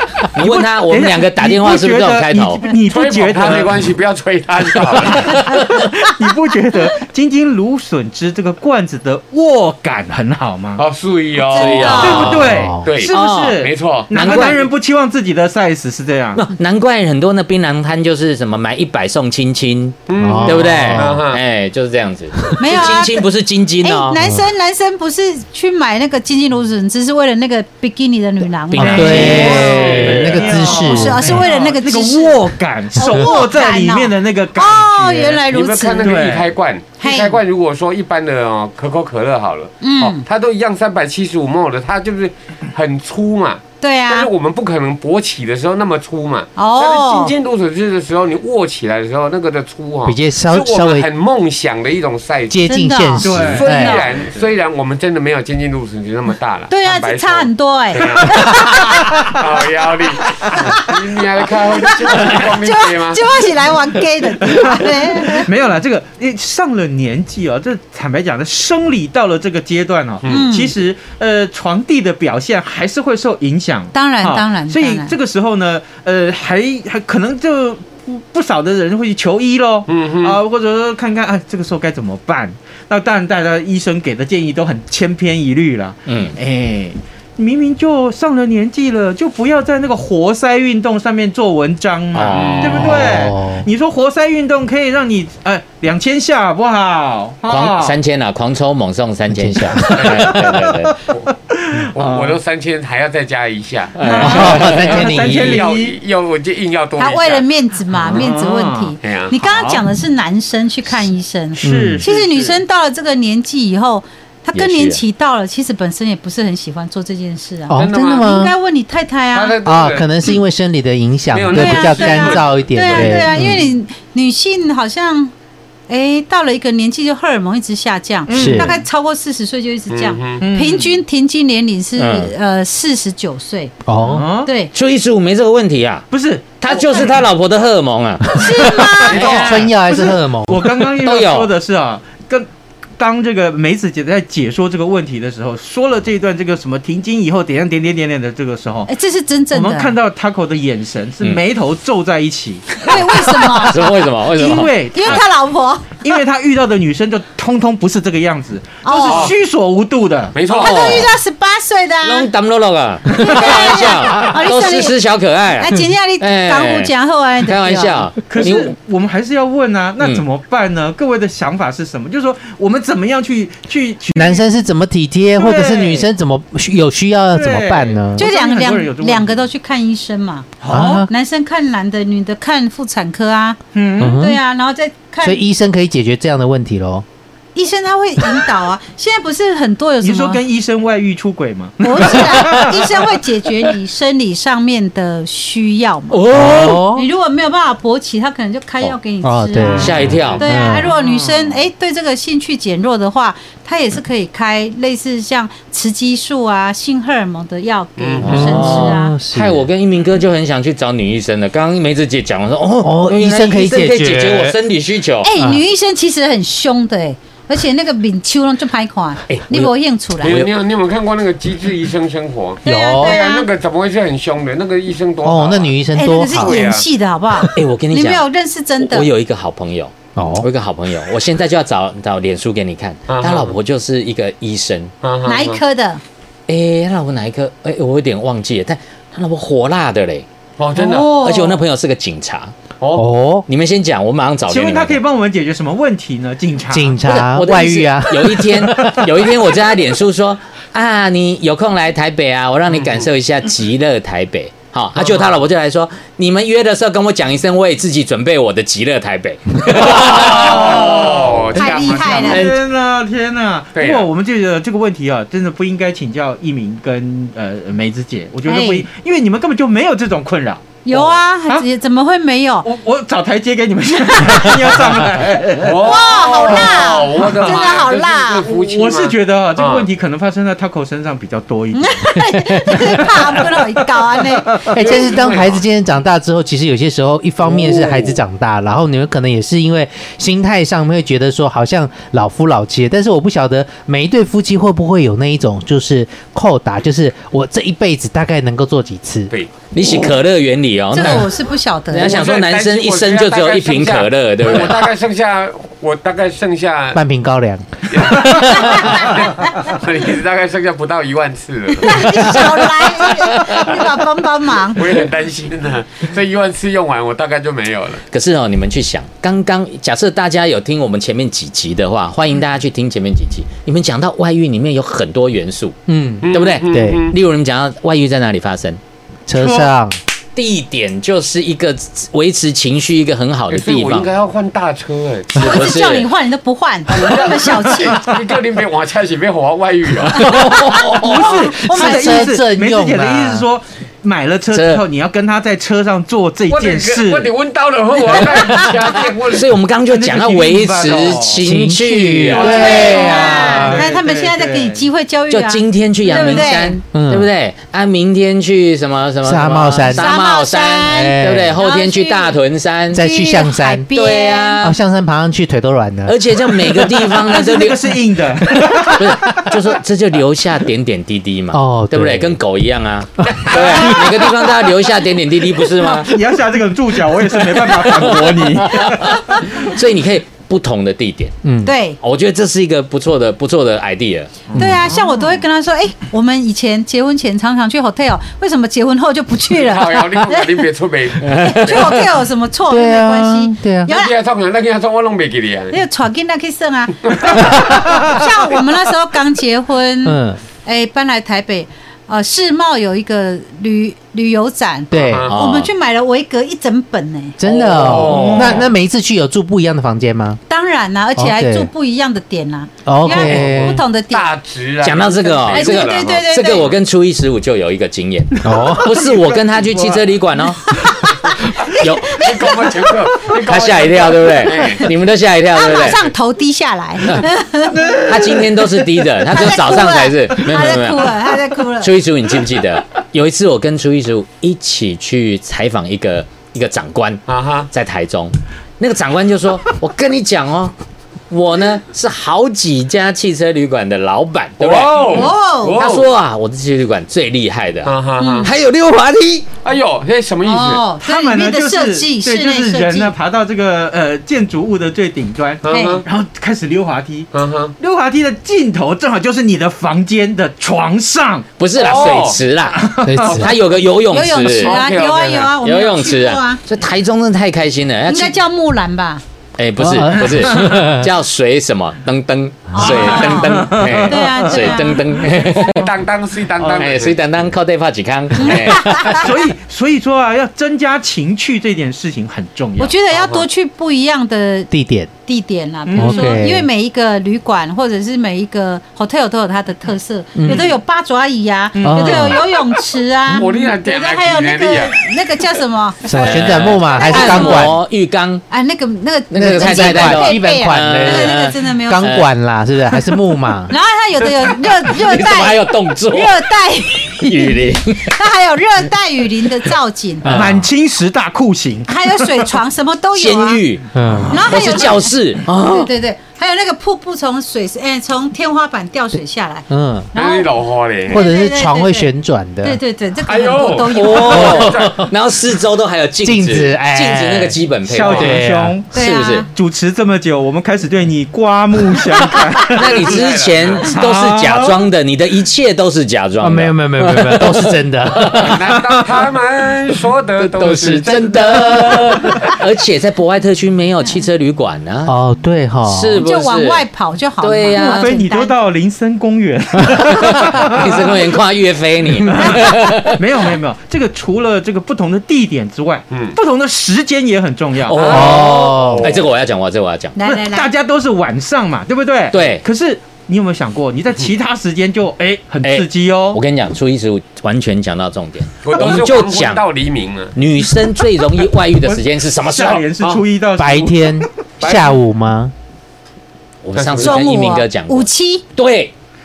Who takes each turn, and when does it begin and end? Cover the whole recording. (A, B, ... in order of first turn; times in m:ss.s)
0:00.2-0:02.7 A
0:00.4-0:03.8 B
0:02.8-0:05.6 C
0:05.2-0:10.8 B
0:10.8-0:14.6 C
0:11.5-0:14.6 A
0:11.5-0:12.4 D
0:11.9-0:16.5 B
0:12.4-0:12.8 E
0:16.4-0:24.2 A
0:20.1-0:21.4 C
0:20.2-0:21.2 E
0:22.6-0:23.3 D
0:23.8-0:30.0 D
0:28.7-0:29.6 A
0:28.8-0:31.4 E
0:28.8-0:35.4 B
0:29.2-0:30.9 C
0:30.6-0:36.2 D
0:35.5-0:52.6 C
0:36.0-0:36.5 B
0:37.0-0:37.4 D
0:39.8-0:40.2 D
0:43.8-0:44.3 D
0:46.6-0:47.3 D
0:50.0-0:51.1 E
0:52.5-0:54.0 E
0:52.7-0:54.1 D
0:53.2-1:03.3 C
0:53.2-0:54.5 B
0:56.7-0:59.1 D
1:00.6-1:00.9 D
1:02.0-1:05.5 D
1:04.4-1:38.0 B
1:10.2-1:10.5 C
1:10.3-1:10.7 D
1:13.9-1:15.2 D
1:19.9-1:20.4 C
1:26.1-1:26.4 A
1:32.1-1:33.0 A
1:32.3-1:33.0 C
1:32.8-1:33.7 E
1:37.5-1:41.0 A
1:39.3-1:40.2 E
1:39.8-1:42.1 B
1:39.9-1:40.4 C
1:41.9-1:47.5 C
1:42.0-1:42.3 A
1:44.0-1:45.3 A
1:44.0-1:44.5 D
1:44.1-1:46.0 B
1:44.2-1:45.7 E
1:47.0-1:59.6 D
1:48.1-1:49.8 B
1:49.0-1:49.4 C
1:51.6-1:52.3 B
1:51.6-1:52.0 E
1:52.3-1:52.6 C
1:54.6-1:55.0 A
1:57.7-1:58.5 E
1:57.7-1:58.4 C
1:59.3-2:00.3 C
1:59.6-2:03.7 E
2:01.3-2:03.3 C
2:01.5-2:05.3 D
2:05.9-2:13.8 D
2:08.3-2:08.8 B
2:08.3-2:08.7 E
2:09.9-2:10.5 C
2:10.4-2:11.0 B
2:12.0-2:12.3 A
2:13.8-2:14.3 E
2:14.0-2:14.5 B
2:14.4-2:14.7 D
2:14.7-2:16.1 A
2:16.1-2:17.1 B
2:16.6-2:19.7 A
2:18.4-2:19.5 D
2:18.4-2:22.5 B
2:19.1-2:19.5 C
2:19.2-2:20.7 E
2:20.6-2:21.5 A
2:23.0-2:28.9 B
2:28.9-2:30.0 D
2:29.5-2:35.3 B
2:32.8-2:34.0 D
2:33.4-2:35.2 A
2:34.9-2:36.0 D
2:36.0-2:40.4 B
2:38.8-2:39.3 D
2:39.1-2:39.4 C
2:40.3-2:41.1 C
2:40.5-2:42.3 D
2:40.5-2:41.2 A
2:42.0-2:48.7 A
2:43.2-2:45.0 D
2:45.6-2:48.1 D
2:48.3-2:54.4 B
2:50.0-2:50.2 A
2:54.1-2:58.3 E
2:55.4-2:56.1 B
2:57.3-2:59.4 B
2:58.2-3:05.4 D
3:00.6-3:01.1 B
3:00.7-3:01.1 E
3:03.7-3:04.2 B
3:04.0-3:04.4 E
3:05.2-3:07.0 E
3:07.6-3:10.4 D
3:10.0-3:13.1 B
3:11.8-3:29.2 D
3:16.1-3:16.8 A
3:16.3-3:17.1 E
3:19.2-3:20.9 E
3:19.8-3:20.4 A
3:20.1-3:20.4 C
3:20.7-3:21.6 B
3:28.0-3:28.5 C
3:28.2-3:29.7 E
3:28.2-3:35.3 A
3:32.8-3:34.6 E
3:35.2-3:40.4 D
3:35.4-3:35.6 E
3:39.3-3:40.5 A
3:40.2-3:45.8 C
3:42.6-3:43.5 D
3:42.6-3:43.2 E
3:45.2-3:46.6 E
3:46.0-3:49.1 D
3:46.3-3:46.9 C
3:47.5-3:48.3 A
3:48.8-3:54.9 A
3:50.2-3:50.5 E
3:53.1-3:53.6 C
3:55.0-3:55.6 C
3:55.2-3:56.0 D
3:56.5-4:00.3 A
4:00.6-4:01.2 C
4:00.8-4:01.6 D
4:01.2-4:02.5 A
4:02.8-4:03.1 C
4:03.0-4:03.5 E
4:03.5-4:05.0 A
4:04.5-4:07.0 B
4:06.7-4:09.2 E
4:07.0-4:20.8 A
4:12.8-4:13.0 C
4:19.7-4:22.5 C
4:19.8-4:30.8 B
4:21.5-4:22.5 D
4:22.3-4:22.6 A
4:23.8-4:24.1 C
4:28.4-4:28.9 D
4:30.8-4:32.7 D
4:32.6-4:36.0 B
4:35.6-4:39.9 C
4:35.8-4:38.5 D
4:38.5-4:42.2 B
4:41.7-4:44.6 D
4:42.7-4:44.7 B
4:44.7-4:59.3 E
4:44.8-4:45.6 C
4:47.5-4:48.2 C
4:59.7-5:01.4 A
5:00.9-5:02.3 D
5:01.9-5:04.9 A
5:02.0-5:07.0 C
5:06.9-5:08.7 E
5:07.9-5:12.4 C
5:08.5-5:09.5 D
5:11.8-5:14.9 D
5:14.7-5:18.0 C
5:18.1-5:25.8 A
5:25.9-5:27.0 E
5:26.2-5:27.2 C
5:26.3-5:28.8 A
5:29.3-5:30.0 E
5:29.4-5:29.7 B
5:30.4-5:34.1 A
5:33.5-5:35.5 C
5:35.4-5:36.1 A
5:35.4-5:38.1 D
5:36.9-5:40.3 C
5:40.2-5:41.4 A
5:40.2-5:40.5 D
5:41.0-5:47.3 B
5:41.3-5:42.4 D
5:41.6-5:43.5 E
5:44.5-5:44.8 A
5:46.5-5:49.5 C
5:49.3-5:53.6 A
5:49.9-5:51.4 B
5:50.8-5:51.2 C
5:51.4-5:53.8 E
5:52.3-5:53.2 C
5:52.4-5:56.8 D
5:52.6-5:54.9 B
5:55.3-6:03.1 A
5:56.9-5:57.3 E
5:59.2-6:00.2 E
5:59.9-6:02.4 D
6:00.8-6:01.6 E
6:02.9-6:03.9 E
6:02.9-6:04.6 D
6:03.9-6:04.8 A
6:04.6-6:07.0 E
6:06.1-6:16.2 A
6:07.2-6:09.6 B
6:11.5-6:12.4 E
6:13.3-6:14.0 C
6:16.0-6:19.7 B
6:17.4-6:21.4 A
6:21.4-6:21.7 E
6:21.6-6:22.0 D
6:22.0-6:24.4 A
6:24.5-6:24.9 B
6:24.5-6:25.0 E
6:24.6-6:30.6 D
6:29.5-6:32.1 C
6:31.2-6:32.0 A
6:31.3-6:34.1 D
6:32.7-6:33.9 E
6:33.9-6:35.8 C
6:35.7-6:47.4 D
6:37.1-6:37.6 C
6:40.0-6:40.4 E
6:44.9-6:45.3 E
6:45.1-6:45.4 C
6:45.3-6:45.7 A
6:47.4-6:50.4 E
6:47.4-6:48.7 C
6:47.8-6:48.7 B
6:47.9-6:48.6 A
6:50.5-6:54.4 D
6:51.2-6:51.7 E
6:52.8-6:53.8 E
6:53.0-6:56.3 C
6:54.8-7:00.8 A
6:55.5-6:56.7 D
6:58.4-6:58.9 E
6:58.5-7:00.0 B
7:00.8-7:02.3 D
7:01.7-7:02.3 A
7:02.1-7:04.9 C
7:03.4-7:06.1 A
7:05.5-7:08.0 D
7:07.7-7:09.0 B
7:08.1-7:20.7 A
7:09.3-7:12.0 D
7:17.3-7:17.7 C
7:21.3-7:27.9 A
7:24.6-7:26.1 C
7:25.1-7:25.8 D
7:27.8-7:28.5 C
7:28.2-7:28.5 D
7:28.4-7:29.5 A
7:29.6-7:30.9 C
7:30.4-7:33.1 D
7:31.0-7:41.5 B
7:35.6-7:36.0 C
7:35.7-7:36.0 D
7:37.3-7:37.8 C
7:41.6-7:44.8 A
7:41.8-7:42.4 C
7:42.7-7:43.4 B
7:43.0-7:43.5 E
7:44.1-7:46.6 D
7:44.6-7:45.6 C
7:45.6-7:48.4 A
7:48.1-7:49.2 D
7:49.6-7:55.8 A
7:49.8-7:51.1 E
7:50.2-7:50.7 B
7:52.7-7:55.0 D
7:52.8-7:55.9 B
7:55.6-7:57.2 C
7:56.7-7:59.3 A
7:58.4-7:59.3 D
7:58.8-8:03.0 B
8:02.8-8:04.7 D
8:03.1-8:03.5 C
8:04.7-8:05.1 E
8:05.3-8:17.8 D
8:05.9-8:06.5 B
8:06.0-8:06.7 E
8:10.3-8:10.7 E
8:11.8-8:12.6 B
8:11.8-8:12.4 E
8:13.3-8:15.1 C
8:16.0-8:17.8 E
8:16.1-8:18.4 A
8:18.5-8:22.1 D
8:19.3-8:22.3 A
8:19.4-8:23.7 E
8:23.7-8:30.3 D
8:24.8-8:26.4 A
8:27.2-8:28.2 A
8:30.2-8:30.7 E
8:30.3-8:32.5 B
8:31.9-8:33.6 D
8:33.2-8:35.9 A
8:33.9-8:34.4 E
8:34.1-8:34.5 B
8:34.3-8:40.5 D
8:39.7-8:40.1 E
8:40.2-8:41.3 C
8:41.1-8:42.8 E
8:41.1-8:44.7 D
8:43.3-8:45.1 C
8:43.9-8:48.4 A
8:44.4-8:45.1 E
8:46.2-8:47.6 E
8:47.9-8:48.9 B
8:48.0-8:48.4 C
8:48.1-8:48.8 E
8:48.9-8:49.5 A
8:48.9-8:49.5 D
8:49.5-8:53.2 B
8:52.7-8:58.8 A
8:53.0-8:53.9 C
8:53.9-8:54.9 B
8:56.4-8:58.7 E
8:58.4-9:02.6 C
9:00.4-9:05.2 A
9:05.1-9:06.2 E
9:05.8-9:06.8 A
9:06.2-9:08.6 D
9:07.4-9:08.1 A
9:07.7-9:11.4 B
9:10.1-9:13.2 A
9:12.1-9:18.5 B
9:16.1-9:16.4 C
9:17.9-9:20.2 A
9:18.0-9:19.3 C
9:18.1-9:19.2 E
9:20.2-9:20.7 D
9:20.2-9:26.4 B
9:22.3-9:22.6 A
9:25.6-9:29.6 A
9:28.6-9:30.4 C
9:30.4-9:32.9 A
9:31.8-9:34.3 B
9:33.0-9:33.2 C
9:33.6-9:35.5 E
9:34.6-9:35.0 C
9:36.6-9:38.9 A
9:36.8-9:37.2 C
9:37.0-9:38.4 D